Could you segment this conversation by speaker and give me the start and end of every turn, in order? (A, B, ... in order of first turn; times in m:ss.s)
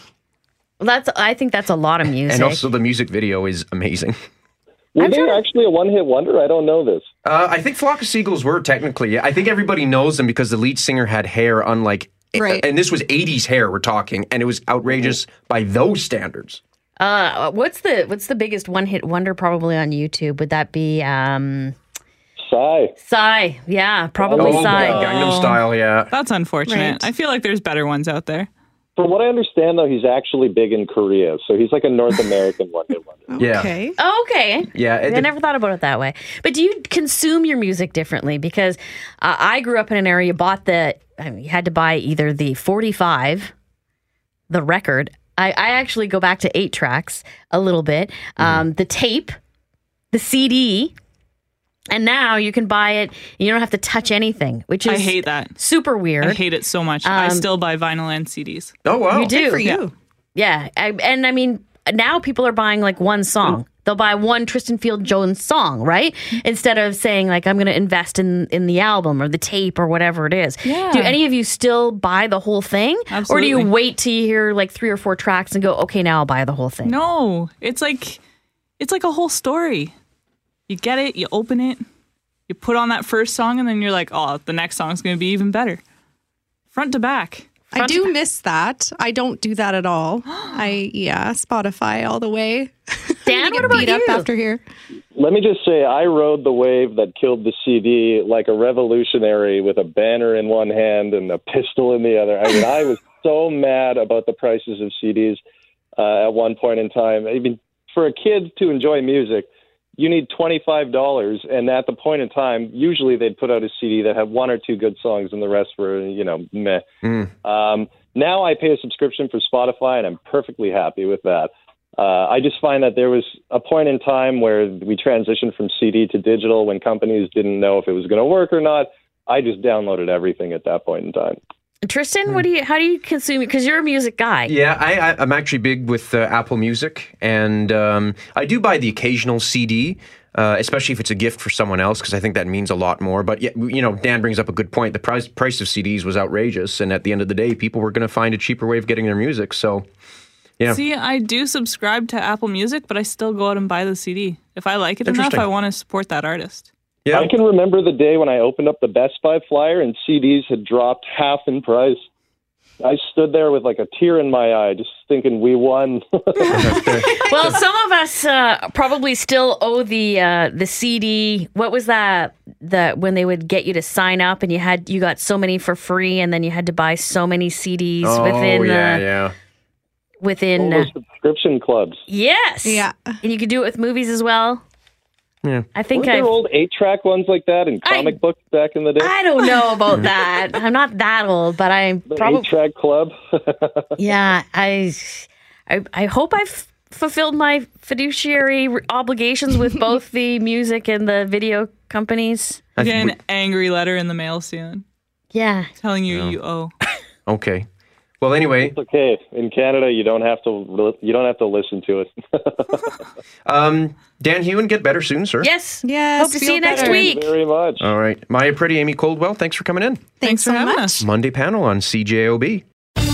0:00.8-0:02.6 A
0:02.3-0:04.2 B
0:05.0-0:07.1 C
0:05.0-0:05.4 A
0:07.2-0:16.6 B
0:12.4-0:12.6 D
0:17.0-0:21.8 A
0:22.5-0:22.9 C
0:23.0-0:25.1 A
0:24.2-0:25.0 C
0:24.4-0:26.1 B
0:25.0-0:28.5 E
0:26.7-0:27.1 D
0:29.0-0:33.3 C
0:33.3-0:34.0 D
0:33.4-0:33.7 B
0:34.0-0:43.5 A
0:34.7-0:35.3 B
0:44.5-0:49.3 A
0:50.1-0:50.9 A
0:51.9-0:56.4 A
0:54.8-0:55.6 E
0:56.2-0:58.7 E
0:57.0-0:57.5 A
0:58.8-0:59.3 B
0:59.1-0:59.7 A
0:59.2-0:59.9 D
0:59.5-0:59.9 E
1:00.4-1:17.0 A
1:10.6-1:11.2 E
1:13.1-1:13.7 E
1:16.8-1:18.2 E
1:18.8-1:19.9 E
1:20.7-1:21.8 E
1:22.5-1:25.8 E
1:26.7-1:27.5 E
1:27.7-1:34.6 D
1:27.8-1:28.1 A
1:33.2-1:34.3 A
1:35.2-1:45.4 C
1:46.0-1:56.8 C
1:57.4-2:11.4 C
2:11.8-2:14.5 A
2:14.5-2:29.9 B
2:30.7-2:36.7 E
2:35.0-2:35.5 B
2:37.1-2:42.0 C
2:42.8-2:46.5 C
2:46.4-2:46.8 E
2:46.5-2:47.4 B
2:47.0-2:59.1 A
2:58.0-2:59.3 B
3:00.2-3:00.9 A
3:00.6-3:02.0 C
3:02.1-3:04.6 A
3:02.6-3:03.1 D
3:05.8-3:06.3 A
3:05.9-3:09.1 C
3:07.8-3:08.2 A
3:09.0-3:12.5 A
3:12.1-3:13.8 C
3:14.0-3:22.6 A
3:22.8-3:23.1 B
3:22.8-3:24.8 E
3:25.3-3:25.7 A
3:25.8-3:26.7 E
3:26.1-3:26.4 B
3:27.2-3:27.7 B
3:28.2-3:28.8 B
3:28.6-3:32.8 C
3:33.5-3:35.5 B
3:35.4-3:37.3 A
3:35.8-3:37.1 D
3:36.7-3:37.8 C
3:37.8-3:40.1 B
3:40.2-3:41.1 D
3:40.2-3:41.0 E
3:41.0-3:42.6 B